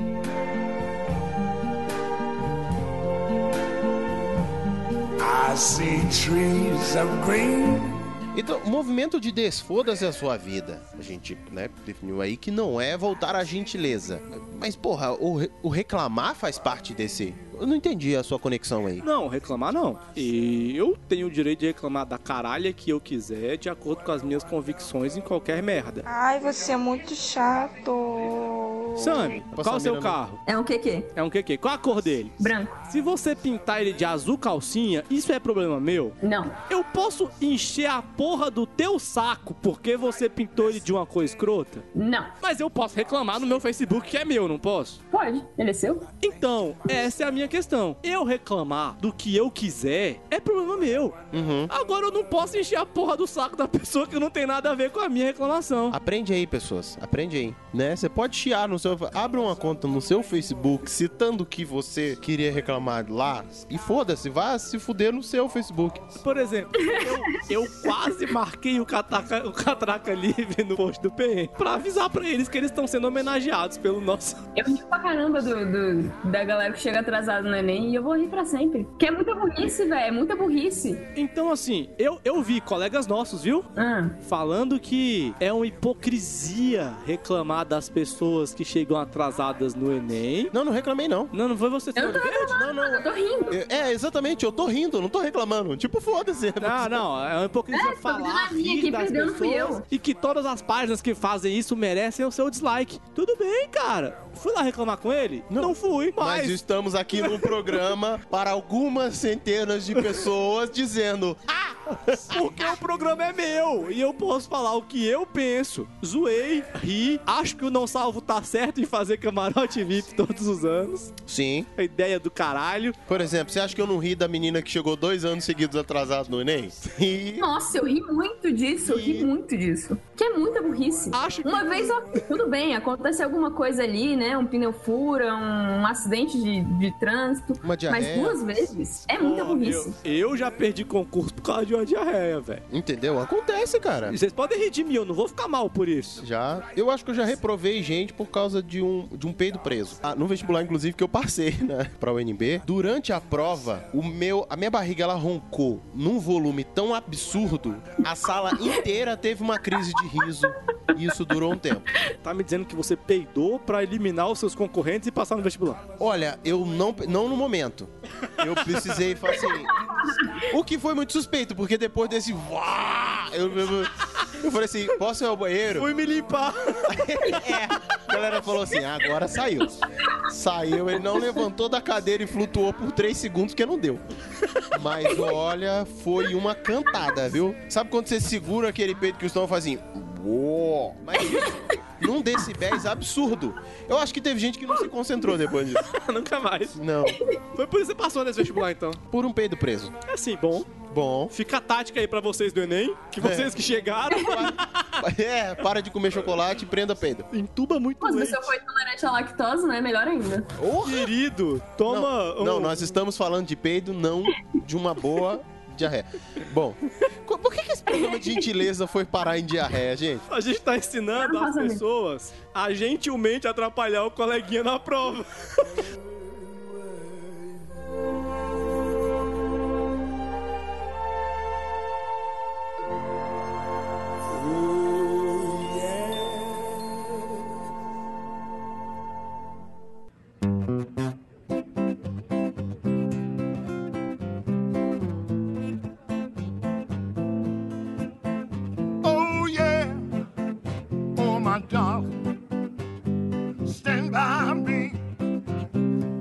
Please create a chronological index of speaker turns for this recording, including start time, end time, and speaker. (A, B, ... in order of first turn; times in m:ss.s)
0:05.2-0:08.0 A
0:08.3-0:19.0 B
0:19.0-0:26.1 C
0:26.1-0:29.1 D
0:29.0-0:30.4 C
0:29.2-0:30.2 B
0:30.5-0:31.1 E
0:31.2-0:32.4 C
0:32.4-0:32.8 E
0:32.9-0:36.2 C
0:36.2-0:36.6 E
0:36.7-0:41.9 C
0:42.0-0:42.3 E
0:42.4-0:45.0 C
0:45.1-0:46.1 E
0:46.2-0:56.0 C
0:51.3-0:51.7 B
0:55.9-1:06.2 B
1:06.2-1:14.4 C
1:06.8-1:07.2 E
1:14.6-1:21.1 E
1:21.2-1:23.7 C
1:23.8-1:24.2 E
1:24.2-1:30.5 C
1:30.5-1:31.3 B
1:31.3-1:32.6 C
1:32.0-1:33.6 E
1:32.5-1:37.0 B
1:36.6-1:46.6 C
1:37.7-1:39.8 E
1:45.5-1:52.7 B
1:47.2-1:47.7 C
1:52.3-2:01.2 C
2:01.3-2:01.7 B
2:01.8-2:03.0 C
2:03.1-2:07.5 B
2:07.4-2:20.0 E
2:08.8-2:09.3 B
2:11.1-2:12.2 C
2:17.6-2:18.4 B
2:19.1-2:22.6 C
2:22.7-2:24.2 B
2:24.1-2:26.2 C
2:26.2-2:41.9 B
2:42.2-2:45.8 C
2:46.0-2:55.9 B
2:48.3-2:49.0 C
2:49.7-2:50.5 E
2:55.8-2:57.0 C
2:56.9-3:04.0 B
3:04.7-3:15.8 B
3:11.2-3:11.6 E
3:15.8-3:16.8 C
3:16.8-3:17.2 B
3:17.6-3:19.0 C
3:19.1-3:20.0 B
3:20.1-3:20.7 C
3:20.9-3:21.3 B
3:21.3-3:25.0 C
3:23.2-3:27.3 B
3:27.3-3:28.5 C
3:28.0-3:30.5 E
3:30.6-3:31.1 B
3:30.8-3:32.8 C
3:31.9-3:40.2 B
3:37.9-3:38.5 E
3:40.3-3:45.8 C
3:41.2-3:41.8 E
4:09.0-4:10.1 A
4:11.2-4:12.1 A
4:13.6-4:15.0 A